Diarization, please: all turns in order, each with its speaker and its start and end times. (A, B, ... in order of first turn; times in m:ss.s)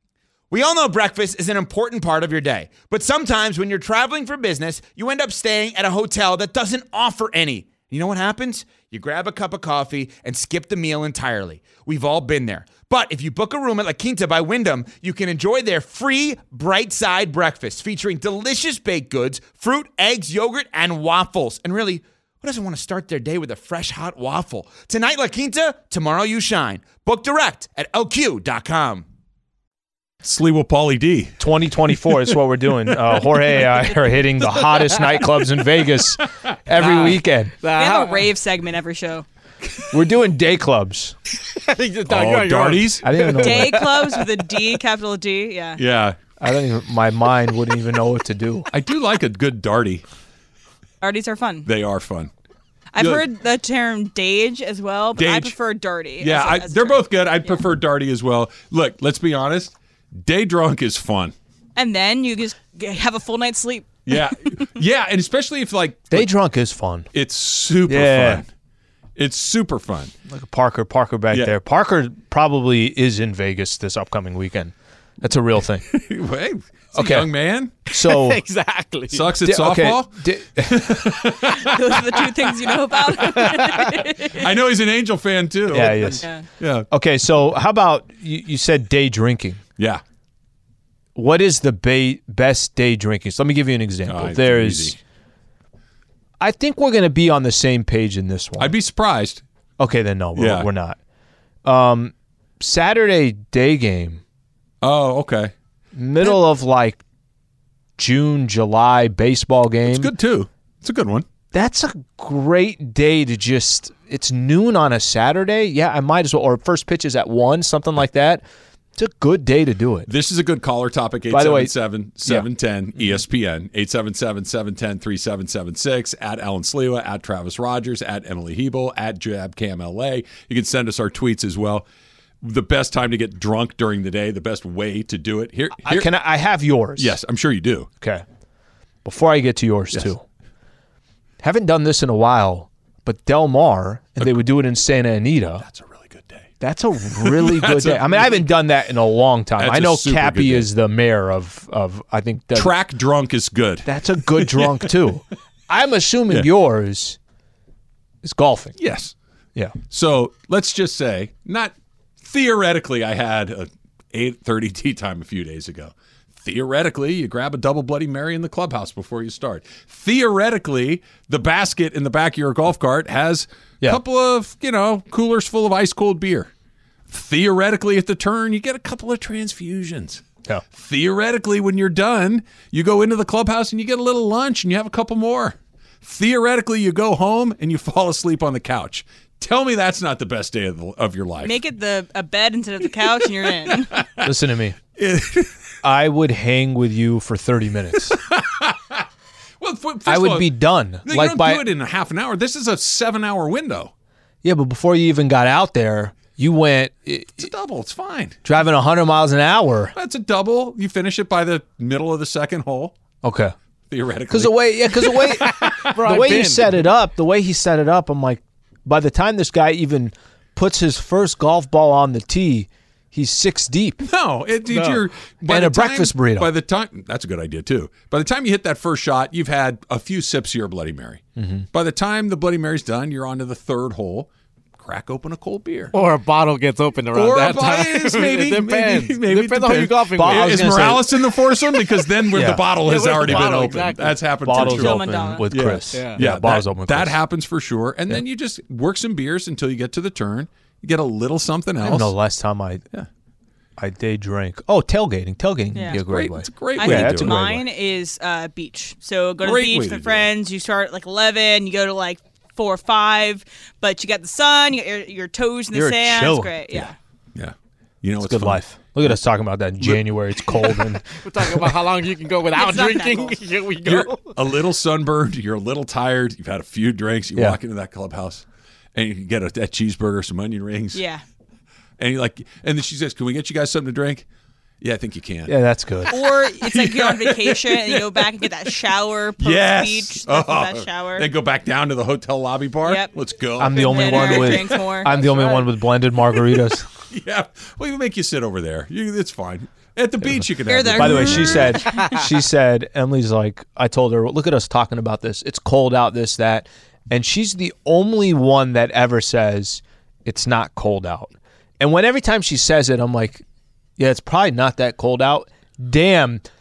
0:00.5-0:29.1 A
0:30.2-0:31.4 B
0:31.4-0:37.5 C
0:36.8-0:38.3 D
0:37.8-0:39.3 E
0:39.9-0:41.2 C
0:41.5-0:44.2 D
0:42.1-0:43.1 B
0:43.0-0:43.8 C
0:43.4-0:45.8 E
0:45.8-0:46.2 B
0:46.4-0:48.7 C
0:48.7-0:50.0 B
0:51.0-0:51.7 E
0:51.7-0:52.3 B
0:52.9-0:57.6 E
0:55.2-0:55.5 B
0:56.2-1:01.3 B
1:01.8-1:04.6 E
1:04.1-1:06.3 B
1:06.1-1:07.1 C
1:07.1-1:08.5 B
1:07.9-1:08.4 C
1:09.2-1:10.1 B
1:10.3-1:15.8 C
1:15.9-1:17.8 B
1:16.9-1:17.3 C
1:17.9-1:18.4 C
1:17.9-1:19.3 D
1:19.1-1:22.3 B
1:19.4-1:20.9 C
1:21.5-1:24.5 E
1:23.2-1:23.7 D
1:23.3-1:26.9 B
1:25.7-1:26.2 C
1:26.9-1:29.6 C
1:31.2-1:35.0 C
1:34.1-1:35.0 B
1:36.4-1:38.7 C
1:38.6-1:39.4 B
1:39.8-1:41.0 C
1:40.4-1:40.7 B
1:41.6-1:44.2 C
1:44.8-1:45.5 B
1:46.0-1:47.0 C
1:48.0-1:50.1 C
1:49.9-1:51.3 B
1:51.5-1:58.4 C
1:59.0-2:00.1 C
2:00.1-2:11.9 B
2:01.3-2:01.7 C
2:12.4-2:16.1 B
2:15.8-2:17.2 C
2:17.0-2:17.9 B
2:19.0-2:20.2 C
2:21.4-2:25.6 C
2:25.6-2:26.5 B
2:26.6-2:32.7 C
2:27.2-2:28.5 B
2:29.6-2:30.7 B
2:32.5-2:34.9 B
2:33.8-2:37.2 C
2:38.2-2:38.8 C
2:38.8-2:39.1 B
2:39.9-2:56.5 B
2:57.1-3:11.6 B
3:11.4-3:14.0 E
3:13.7-3:14.3 B
3:14.2-3:14.8 C
3:15.0-3:15.6 B
3:15.8-3:18.2 C
3:18.1-3:19.1 B
3:19.6-3:20.5 B
3:20.1-3:21.6 C
3:21.0-3:23.9 B
3:24.4-3:27.5 C
3:27.4-3:28.4 B
3:28.4-3:29.9 C
3:29.9-3:33.0 B
3:33.2-3:33.5 C
3:33.9-3:35.9 B
3:34.3-3:44.0 C
3:35.5-3:36.9 D
3:44.0-3:54.3 B
3:44.7-3:45.0 D
3:45.5-3:46.5 C
3:51.4-3:51.7 C
3:54.8-3:55.9 B
3:55.9-4:01.0 D
3:57.1-4:12.1 B
4:00.1-4:01.1 C
4:02.3-4:02.6 C
4:02.8-4:04.2 D
4:04.4-4:07.2 C
4:04.5-4:05.4 E
4:05.9-4:06.2 D
4:11.8-4:12.8 C
4:13.8-4:17.6 C
4:15.9-4:17.4 B
4:16.8-4:26.9 E
4:19.4-4:20.3 B
4:25.7-4:26.9 C
4:27.4-4:28.6 B
4:28.2-4:31.0 C
4:29.8-4:30.6 B
4:31.2-4:34.4 D
4:32.6-4:33.4 E
4:33.8-4:41.0 B
4:40.9-4:41.2 E
4:42.0-4:44.2 B
4:44.8-4:45.6 B
4:45.5-4:46.1 C
4:46.1-4:48.3 B
4:46.1-4:51.3 E
4:49.4-4:54.9 B
4:52.8-4:53.1 E
4:53.6-4:56.9 C
4:53.7-4:55.6 E
4:56.5-5:01.8 B
5:00.7-5:02.2 E
5:01.0-5:13.4 C
5:14.0-5:16.4 C